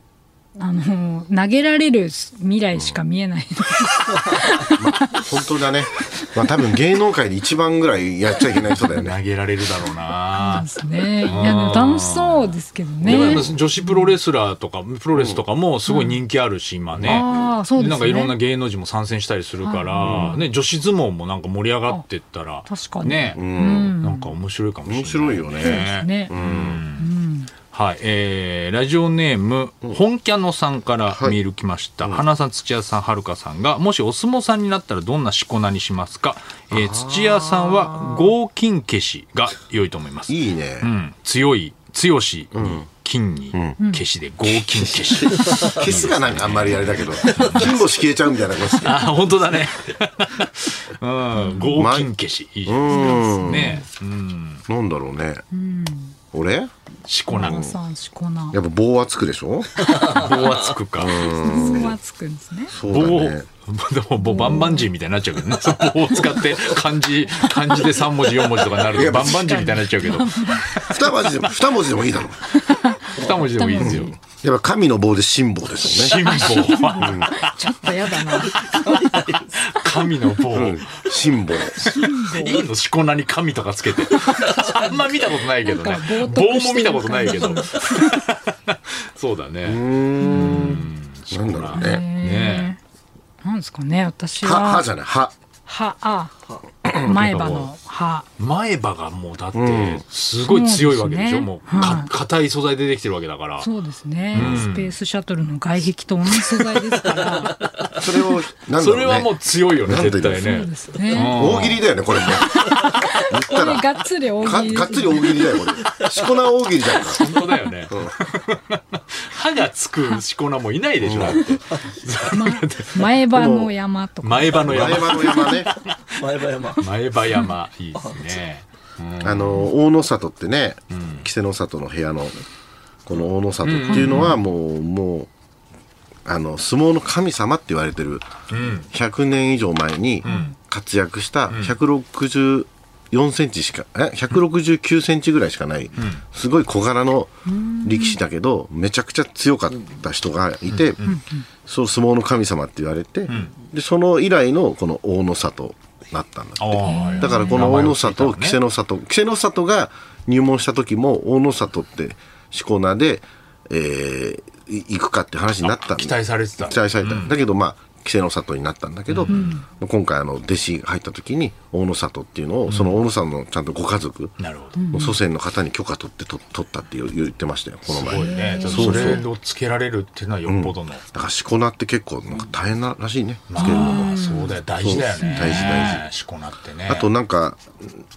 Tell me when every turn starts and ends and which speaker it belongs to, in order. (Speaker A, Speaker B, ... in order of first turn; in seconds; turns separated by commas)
Speaker A: 0.6-5.2, Speaker B: 4.7-9.2, Speaker C: 8.7-10.7, Speaker A: 10.3-14.1, Speaker C: 11.2-12.5, Speaker C: 13.0-27.1, Speaker B: 13.1-13.5, Speaker B: 15.1-15.4, Speaker A: 15.9-16.2, Speaker B: 16.9-17.4, Speaker A: 17.0-18.3, Speaker A: 19.6-20.4, Speaker B: 20.0-20.4, Speaker A: 22.7-24.3, Speaker B: 23.4-23.9, Speaker B: 24.9-26.8, Speaker A: 25.6-26.3, Speaker A: 27.0-27.5, Speaker C: 27.7-47.8, Speaker B: 31.1-31.4, Speaker B: 36.7-38.3, Speaker B: 40.3-40.9, Speaker B: 42.5-42.9, Speaker B: 43.5-43.8, Speaker A: 43.8-44.0, Speaker B: 44.5-49.1, Speaker C: 48.8-54.6, Speaker A: 51.4-51.7, Speaker B: 51.7-52.1, Speaker B: 52.7-53.8, Speaker A: 52.9-53.8, Speaker B: 54.7-55.4, Speaker A: 55.5-56.1, Speaker B: 56.3-56.7, Speaker C: 57.0-57.7, Speaker A: 57.3-58.6, Speaker B: 57.4-57.7, Speaker B: 58.5-60.0, Speaker C: 59.8-61.3, Speaker B: 61.0-62.0, Speaker A: 61.2-62.8, Speaker B: 62.7-63.5, Speaker C: 62.8-71.0, Speaker A: 64.2-64.9, Speaker A: 67.4-67.7, Speaker B: 68.8-69.7, Speaker A: 69.0-70.8, Speaker B: 70.9-72.5, Speaker A: 72.5-74.1, Speaker C: 73.1-74.1, Speaker B: 73.8-76.3, Speaker C: 75.8-81.1, Speaker A: 76.1-79.2, Speaker B: 77.0-77.4, Speaker B: 80.5-81.8, Speaker A: 81.8-82.7, Speaker C: 81.8-92.7, Speaker A: 84.1-85.1, Speaker A: 85.6-88.2, Speaker B: 89.6-92.0, Speaker A: 90.2-90.8, Speaker A: 91.8-92.8, Speaker A: 93.4-94.9, Speaker B: 94.4-95.3, Speaker A: 95.7-96.3, Speaker B: 96.8-97.2, Speaker A: 97.0-98.2, Speaker C: 97.1-97.7, Speaker C: 98.4-103.7, Speaker B: 99.5-100.0, Speaker A: 100.5-102.1, Speaker A: 103.6-107.6, Speaker C: 104.3-104.9, Speaker B: 104.3-104.6, Speaker C: 106.5-108.0, Speaker B: 108.0-110.5, Speaker C: 108.8-111.9, Speaker A: 110.4-111.4, Speaker B: 111.1-113.9, Speaker A: 112.2-115.6, Speaker B: 114.4-117.3, Speaker C: 117.0-123.1, Speaker B: 117.9-118.1, Speaker B: 121.0-121.5, Speaker A: 122.3-125.7, Speaker B: 123.3-123.7, Speaker C: 124.2-129.7, Speaker B: 124.6-125.7, Speaker B: 129.2-132.3, Speaker C: 130.9-131.3, Speaker B: 133.1-135.3, Speaker C: 133.6-134.4, Speaker A: 133.8-134.4, Speaker B: 136.2-138.3, Speaker C: 138.5-138.9, Speaker B: 138.8-147.3, Speaker C: 140.2-140.5, Speaker A: 140.2-140.5, Speaker A: 147.5-148.2, Speaker B: 147.8-151.0, Speaker C: 150.8-151.2, Speaker A: 151.0-151.4, Speaker B: 151.6-174.4, Speaker C: 153.3-153.5, Speaker C: 156.6-158.6, Speaker A: 156.8-157.6, Speaker C: 165.6-167.4, Speaker C: 169.1-169.5, Speaker A: 169.3-169.6, Speaker C: 172.7-173.0, Speaker C: 174.4-174.8, Speaker A: 174.8-175.1, Speaker B: 174.9-179.2, Speaker C: 177.9-181.0, Speaker A: 178.1-179.2, Speaker B: 180.5-184.2, Speaker C: 183.5-187.1, Speaker A: 183.6-186.0, Speaker B: 184.8-186.0, Speaker B: 186.9-188.0